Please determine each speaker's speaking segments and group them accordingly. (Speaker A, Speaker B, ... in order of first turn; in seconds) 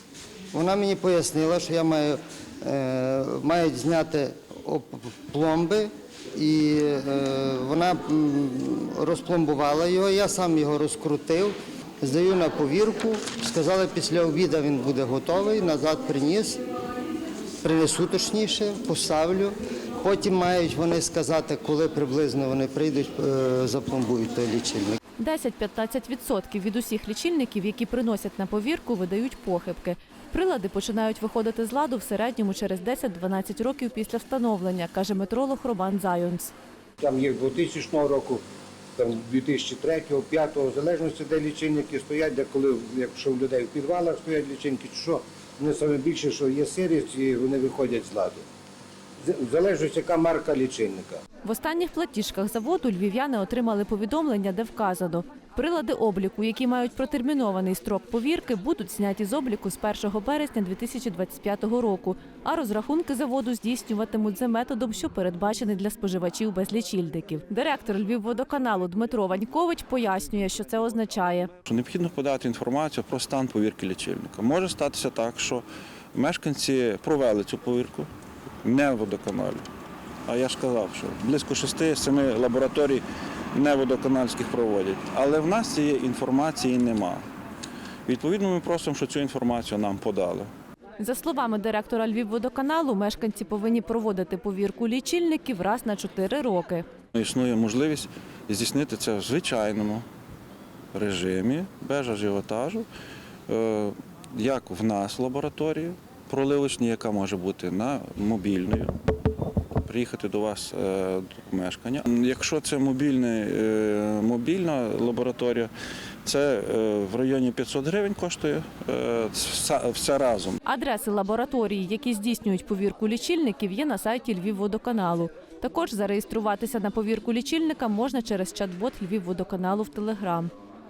Speaker A: 0.5-16.6, 17.6-24.9
Speaker B: 25.2-36.5, 51.4-71.5, 91.0-96.8, 120.7-130.5
Speaker C: 37.0-38.4, 39.0-48.4, 49.2-51.2
Speaker D: 71.7-78.1, 78.6-79.6, 80.3-83.0, 83.5-87.2, 88.1-90.5, 97.1-100.0, 100.9-102.9, 103.5-109.0, 109.8-115.7, 116.2-120.6